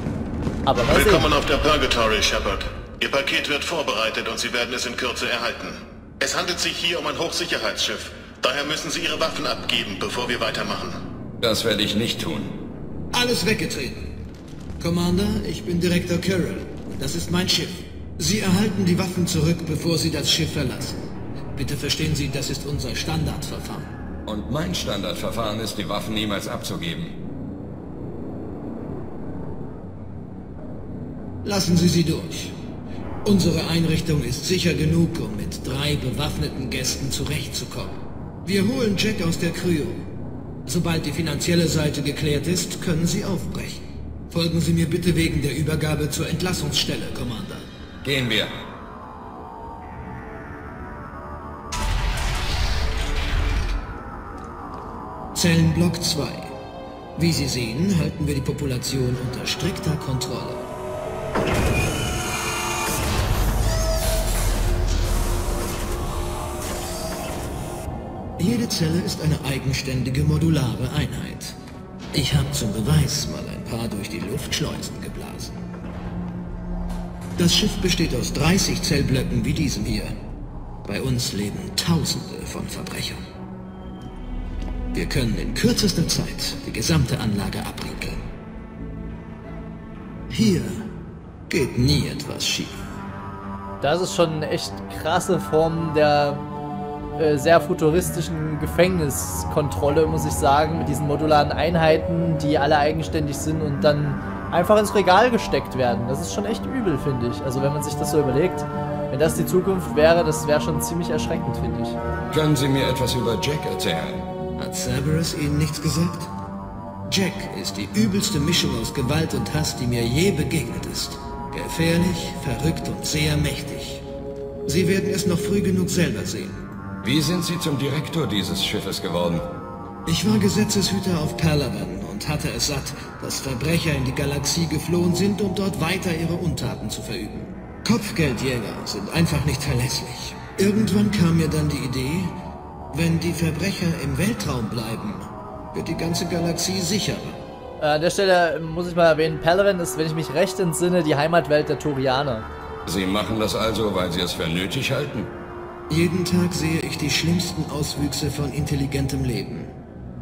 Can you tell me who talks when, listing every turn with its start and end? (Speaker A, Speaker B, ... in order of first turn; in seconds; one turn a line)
Speaker A: 0.7-1.3
Speaker B: 0.8-10.9
Speaker C: 11.4-12.5
Speaker D: 13.1-14.0
Speaker D: 14.8-21.0
Speaker D: 21.5-23.9
Speaker C: 24.3-27.1
Speaker D: 31.4-32.5
Speaker D: 33.2-40.0
Speaker D: 40.6-47.7
Speaker C: 48.0-48.5
Speaker D: 55.3-56.5
Speaker D: 57.2-60.7
Speaker D: 68.4-71.5
Speaker D: 72.1-75.6
Speaker D: 77.4-80.2
Speaker D: 80.8-83.2
Speaker D: 84.9-88.2
Speaker D: 90.3-90.8
Speaker D: 91.5-92.8
Speaker A: 93.8-96.4
Speaker A: 97.2-112.0
Speaker C: 112.3-114.2
Speaker D: 114.6-116.3
Speaker D: 117.1-124.0
Speaker D: 124.7-126.6
Speaker C: 127.0-129.4
Speaker D: 130.1-142.3
Speaker D: 142.9-147.4
Speaker A: 147.8-152.5
Speaker C: 152.8-155.3
Speaker D: 155.9-159.7